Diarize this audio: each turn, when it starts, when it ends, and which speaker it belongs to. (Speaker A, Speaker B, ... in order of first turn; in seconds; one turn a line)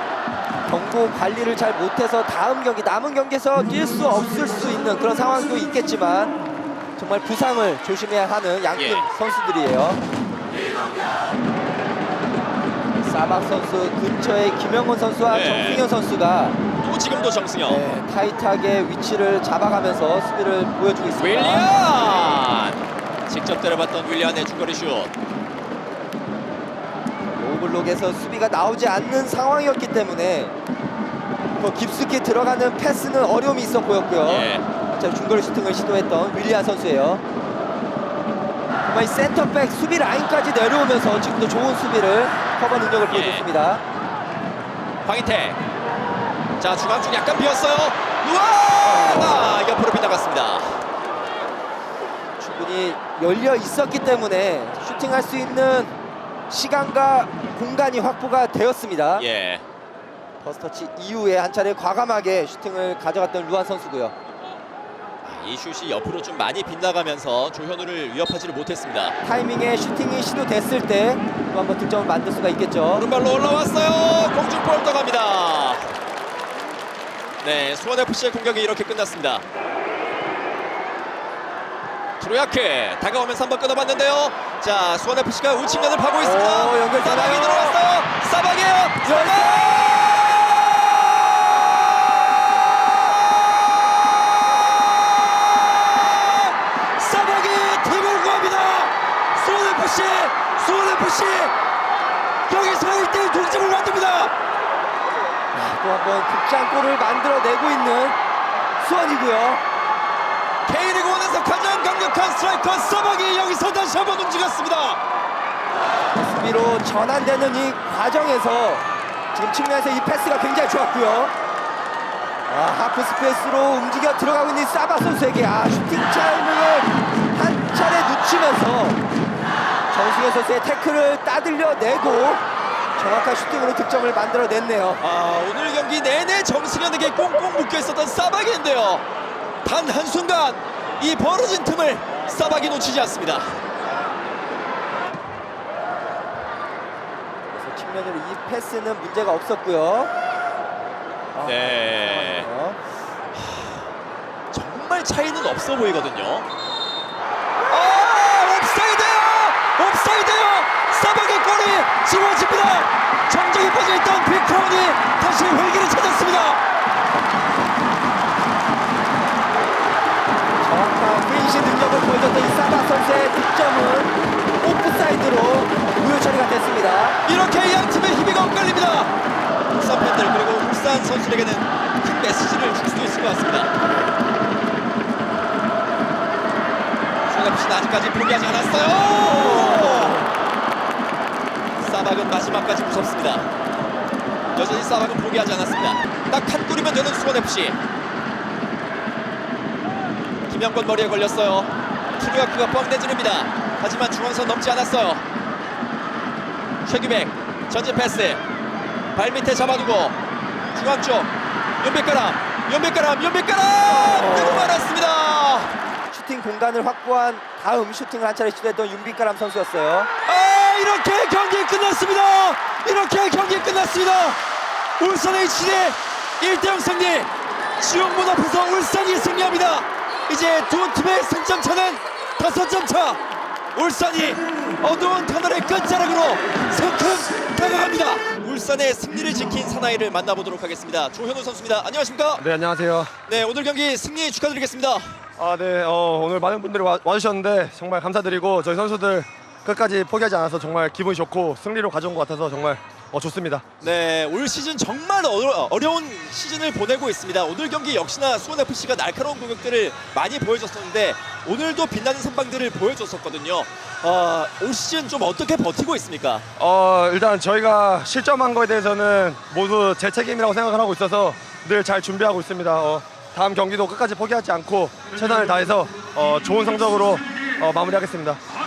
Speaker A: 0.7-6.4
Speaker A: 7.0-10.0
Speaker B: 8.7-9.0
Speaker A: 13.0-16.6
Speaker B: 15.3-15.8
Speaker B: 16.8-17.8
Speaker A: 17.6-21.7
Speaker B: 21.1-25.1
Speaker A: 27.2-30.6
Speaker A: 31.6-37.2
Speaker B: 34.2-34.6
Speaker A: 38.8-43.8
Speaker B: 43.1-43.5
Speaker B: 45.0-45.6
Speaker B: 46.6-50.8
Speaker A: 48.8-49.5
Speaker A: 52.4-55.9
Speaker A: 56.5-59.2
Speaker B: 59.1-59.6
Speaker A: 60.4-64.1
Speaker B: 65.2-69.2
Speaker A: 69.2-73.0
Speaker B: 72.9-75.9
Speaker B: 77.4-79.4
Speaker B: 82.2-101.5
Speaker A: 86.2-87.8
Speaker A: 89.0-90.2
Speaker B: 102.5-104.3
Speaker A: 105.5-108.2
Speaker A: 108.8-109.6
Speaker B: 110.7-115.0
Speaker A: 116.1-121.3
Speaker A: 122.5-129.0
Speaker A: 129.9-132.4
Speaker A: 133.0-135.0
Speaker B: 135.0-139.0
Speaker B: 139.6-143.6
Speaker A: 147.5-150.1
Speaker A: 151.3-152.8
Speaker B: 151.4-152.5
Speaker B: 153.3-153.8
Speaker B: 154.5-156.5
Speaker B: 157.7-166.6
Speaker A: 170.6-177.2
Speaker B: 177.2-179.1
Speaker B: 179.8-183.7
Speaker B: 187.3-190.2
Speaker A: 189.2-190.2
Speaker B: 191.8-193.5
Speaker B: 194.5-197.8
Speaker B: 200.5-205.2
Speaker B: 206.8-208.4
Speaker B: 209.1-215.7
Speaker A: 213.8-214.9
Speaker A: 216.1-220.1
Speaker B: 220.2-224.4
Speaker B: 225.0-233.2
Speaker B: 233.7-242.4
Speaker C: 242.4-243.2
Speaker B: 243.3-245.2
Speaker C: 245.4-253.6
Speaker B: 253.8-266.4
Speaker C: 266.6-278.4